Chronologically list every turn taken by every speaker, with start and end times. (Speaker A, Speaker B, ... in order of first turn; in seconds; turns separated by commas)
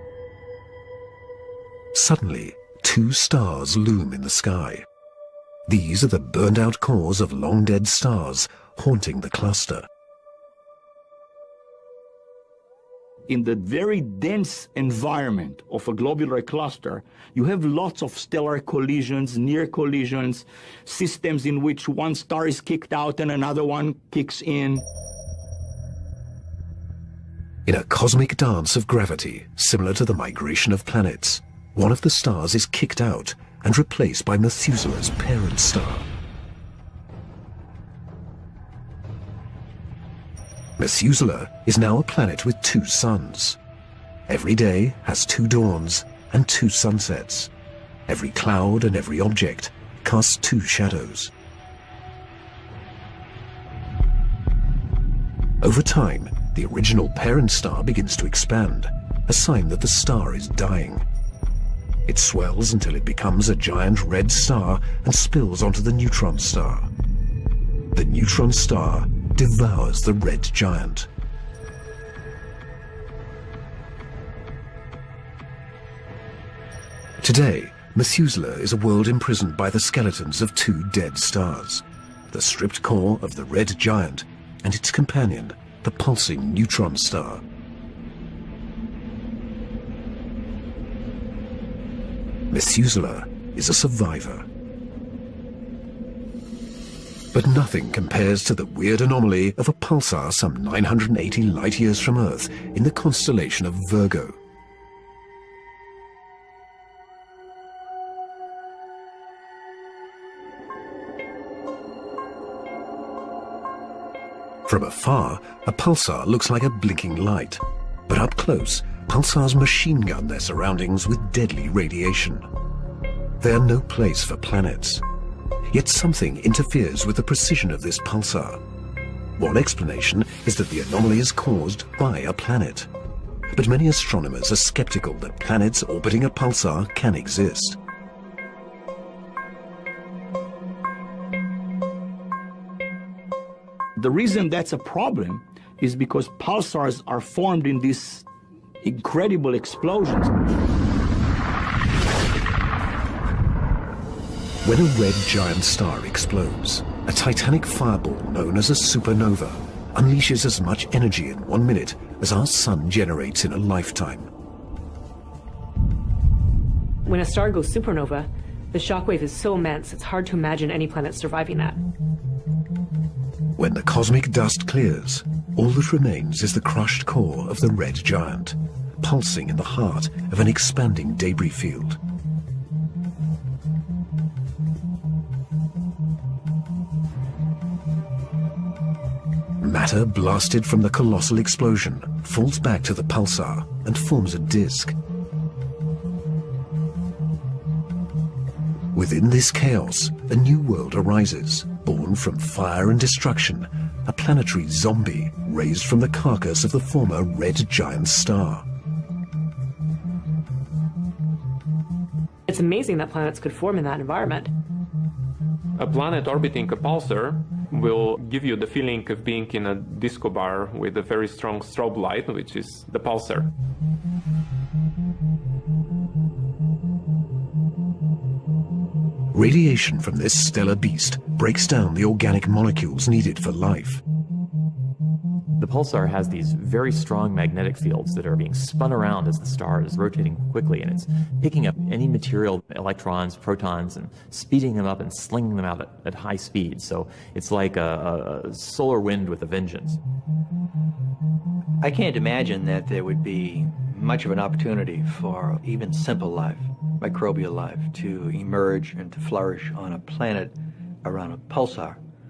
Speaker A: 1.9-4.8, Speaker A: 5.7-9.9, Speaker B: 13.3-24.9, Speaker A: 27.6-36.1, Speaker A: 40.8-43.6, Speaker A: 44.3-47.5, Speaker A: 48.1-51.3, Speaker A: 55.6-61.0, Speaker A: 62.0-66.9, Speaker A: 67.9-71.1, Speaker A: 77.2-87.4, Speaker A: 92.5-94.5, Speaker A: 97.3-104.4, Speaker A: 114.6-122.5, Speaker A: 123.4-125.0, Speaker A: 125.7-128.6, Speaker A: 129.4-132.9, Speaker A: 133.5-137.8, Speaker B: 144.0-148.2, Speaker B: 148.8-150.3, Speaker A: 154.6-164.3, Speaker C: 167.0-171.8, Speaker A: 173.6-182.0, Speaker A: 189.6-195.0, Speaker A: 198.9-208.7, Speaker C: 212.5-214.5, Speaker D: 215.8-223.5, Speaker A: 229.3-234.0, Speaker E: 235.6-250.0, Speaker F: 251.8-262.0